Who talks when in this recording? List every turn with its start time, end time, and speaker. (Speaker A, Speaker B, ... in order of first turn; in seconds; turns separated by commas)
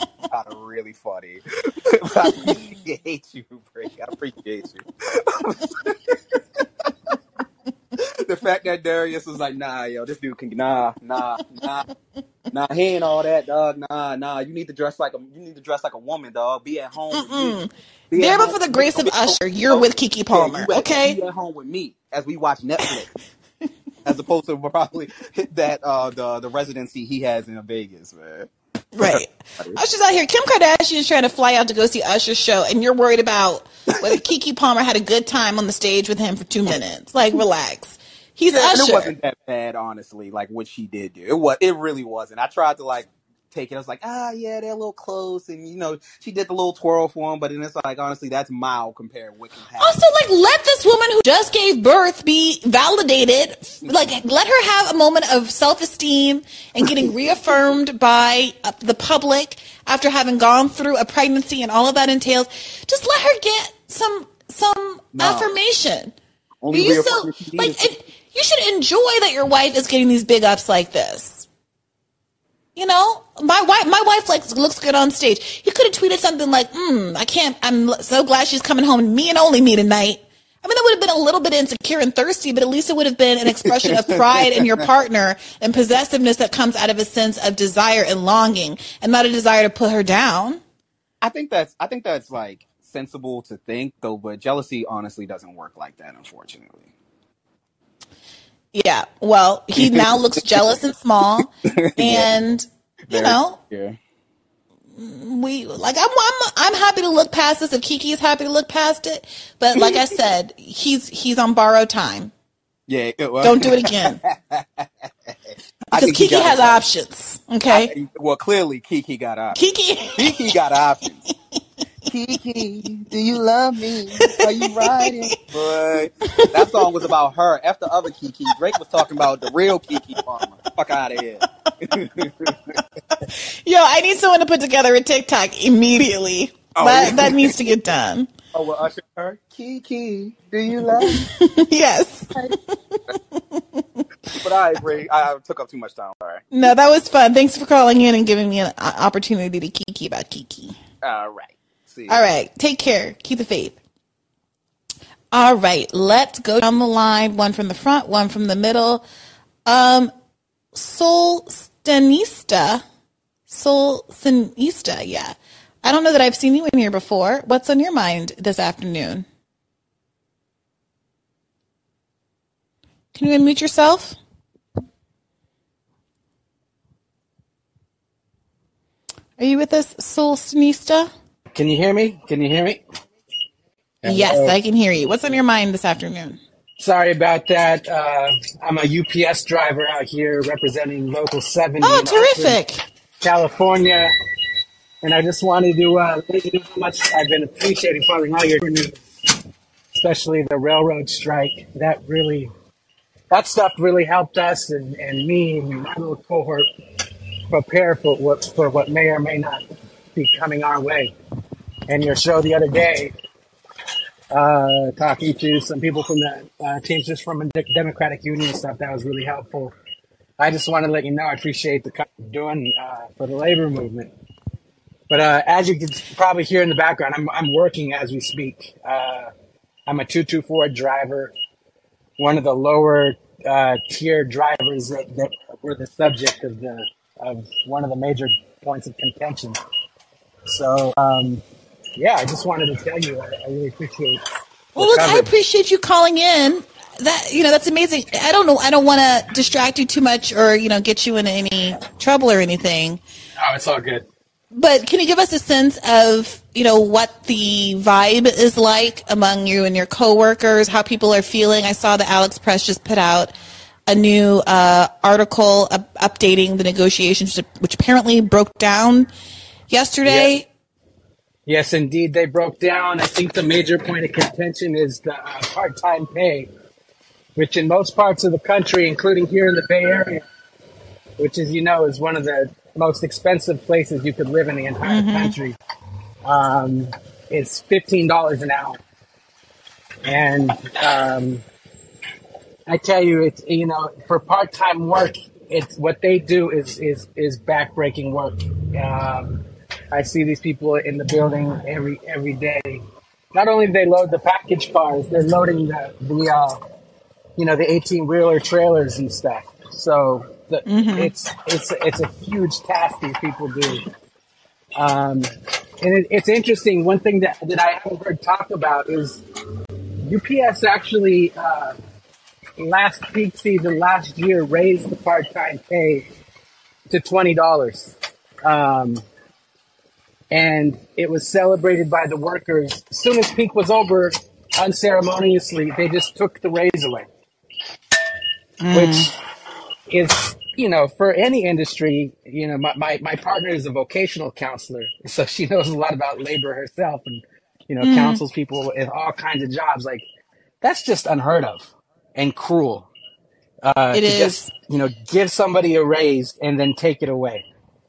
Speaker A: 0.3-7.1, Speaker A: 8.2-11.9, Speaker A: 12.5-23.1, Speaker B: 17.1-21.2, Speaker A: 24.0-29.8, Speaker B: 28.9-39.1, Speaker A: 38.5-50.0, Speaker B: 49.8-66.1, Speaker A: 56.8-57.1, Speaker A: 65.2-65.5, Speaker A: 66.6-67.9, Speaker B: 66.7-71.5, Speaker B: 72.8-90.6, Speaker A: 83.6-84.7, Speaker A: 91.2-96.9, Speaker B: 98.7-103.5, Speaker A: 99.8-100.4, Speaker A: 101.6-102.3, Speaker A: 103.1-104.0, Speaker B: 105.0-112.3, Speaker A: 112.9-115.3, Speaker B: 113.4-114.2, Speaker A: 115.9-116.8, Speaker B: 115.9-117.9, Speaker A: 117.7-119.6, Speaker B: 119.5-120.5, Speaker A: 120.1-121.2, Speaker A: 122.1-132.7, Speaker B: 124.2-125.1, Speaker B: 126.3-126.9, Speaker B: 132.8-138.3, Speaker A: 136.8-137.6, Speaker A: 138.5-141.2, Speaker B: 141.0-144.0, Speaker A: 144.3-146.7, Speaker B: 146.5-150.8, Speaker A: 151.0-152.2, Speaker B: 152.1-153.8, Speaker B: 155.3-159.0, Speaker B: 159.7-160.1, Speaker B: 160.7-162.8, Speaker B: 163.5-169.2, Speaker B: 173.1-174.2, Speaker B: 179.4-181.1, Speaker C: 181.5-182.8, Speaker C: 184.0-184.6, Speaker B: 184.0-186.4, Speaker C: 186.8-192.6, Speaker B: 191.8-192.8, Speaker C: 193.2-194.1, Speaker C: 195.0-199.1, Speaker C: 199.9-202.5, Speaker C: 203.3-206.7, Speaker C: 207.5-211.1, Speaker C: 211.9-213.1, Speaker C: 214.3-219.7, Speaker C: 220.4-224.1, Speaker C: 225.1-229.3, Speaker C: 229.9-231.3, Speaker C: 232.2-239.6, Speaker C: 240.5-241.4, Speaker C: 241.9-244.2, Speaker C: 244.8-245.3, Speaker B: 244.8-253.0, Speaker C: 253.4-254.1, Speaker B: 254.5-263.3, Speaker B: 263.9-269.1, Speaker B: 269.7-270.5, Speaker C: 270.0-270.3, Speaker C: 271.4-276.5, Speaker C: 277.4-280.2, Speaker C: 281.2-285.6, Speaker B: 284.8-285.3, Speaker C: 286.2-288.8, Speaker C: 290.0-291.4, Speaker C: 292.7-306.6, Speaker C: 307.4-313.9, Speaker B: 310.6-311.1, Speaker C: 314.8-315.3, Speaker C: 315.8-319.2, Speaker C: 320.0-321.8, Speaker C: 322.6-326.1, Speaker C: 326.9-329.0, Speaker C: 330.3-337.1, Speaker B: 338.6-339.1, Speaker C: 338.7-339.2, Speaker C: 339.9-350.1, Speaker B: 347.8-348.2, Speaker C: 350.6-352.9, Speaker C: 353.6-357.4, Speaker B: 353.9-354.5